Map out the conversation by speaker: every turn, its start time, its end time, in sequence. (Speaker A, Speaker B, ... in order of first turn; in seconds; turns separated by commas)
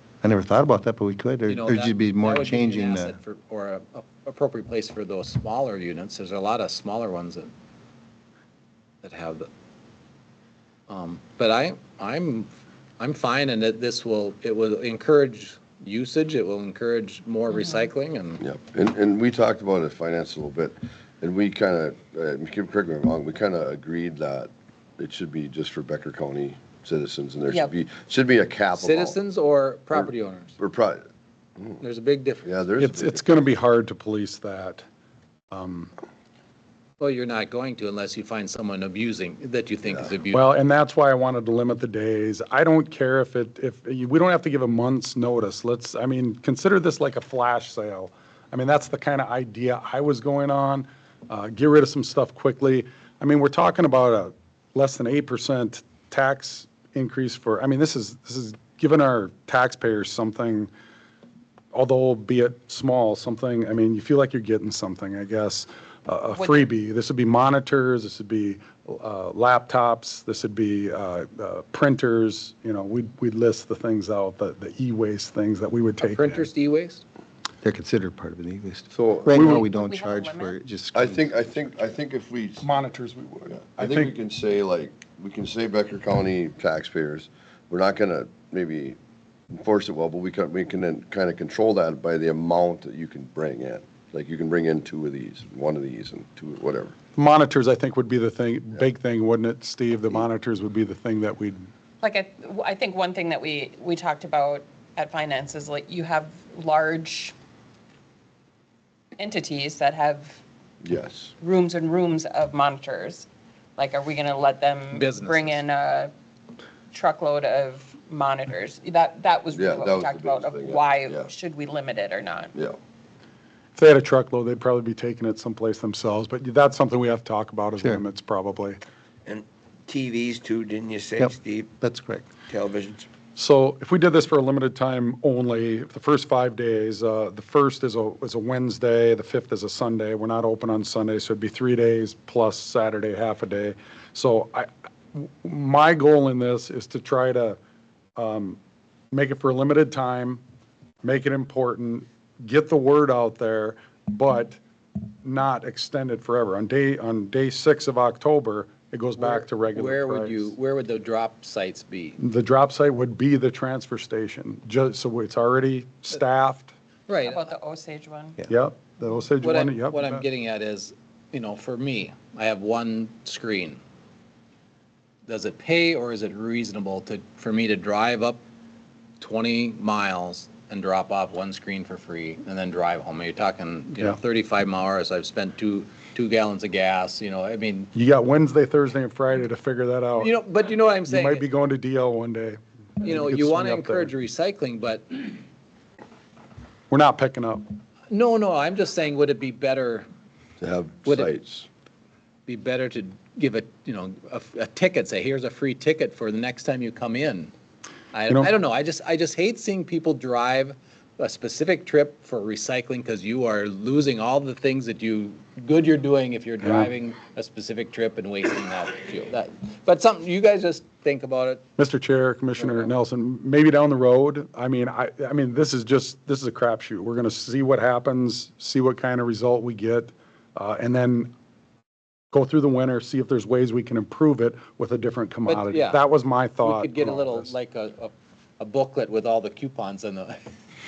Speaker A: 0.2-3.2, Speaker B: 1.5-7.5, Speaker B: 9.0-9.5, Speaker B: 10.9-18.4, Speaker C: 17.5-17.8, Speaker D: 18.4-29.2, Speaker B: 28.8-30.6, Speaker D: 29.9-31.1, Speaker B: 31.8-32.5, Speaker D: 32.5-33.3, Speaker E: 32.8-34.8, Speaker E: 35.5-35.9, Speaker B: 37.0-40.5, Speaker E: 40.3-60.7, Speaker E: 61.7-76.5, Speaker C: 66.3-66.7, Speaker B: 76.0-77.0, Speaker A: 77.6-81.7, Speaker D: 78.9-79.7, Speaker E: 79.3-79.6, Speaker C: 79.5-80.6, Speaker D: 80.9-82.7, Speaker E: 82.6-84.1, Speaker D: 83.5-89.0, Speaker D: 89.5-96.9, Speaker E: 97.2-101.7, Speaker C: 102.0-107.3, Speaker C: 109.2-110.4, Speaker D: 110.8-111.3, Speaker C: 111.4-116.1, Speaker B: 114.9-115.6, Speaker C: 116.9-122.5, Speaker D: 119.5-121.3, Speaker E: 123.8-128.8, Speaker F: 129.3-131.7, Speaker A: 131.2-132.3, Speaker F: 132.4-133.1, Speaker E: 133.4-147.6, Speaker E: 148.2-148.6, Speaker E: 149.1-150.4, Speaker E: 151.0-154.6, Speaker E: 155.2-160.5, Speaker B: 159.2-162.2, Speaker E: 162.2-166.7, Speaker B: 167.1-167.5, Speaker C: 167.2-168.4, Speaker E: 168.5-170.2, Speaker B: 169.4-173.8, Speaker B: 175.3-178.4, Speaker B: 179.2-187.9, Speaker E: 187.9-190.3, Speaker B: 190.2-191.4, Speaker E: 191.1-194.1, Speaker B: 193.0-195.4, Speaker E: 196.9-197.7, Speaker B: 198.1-200.1, Speaker D: 200.6-201.7, Speaker B: 201.1-201.3, Speaker B: 202.5-207.5, Speaker B: 208.1-221.6, Speaker E: 216.6-216.9, Speaker E: 221.8-231.3, Speaker B: 222.6-222.9, Speaker E: 232.3-237.5, Speaker B: 235.5-236.0, Speaker B: 236.6-240.4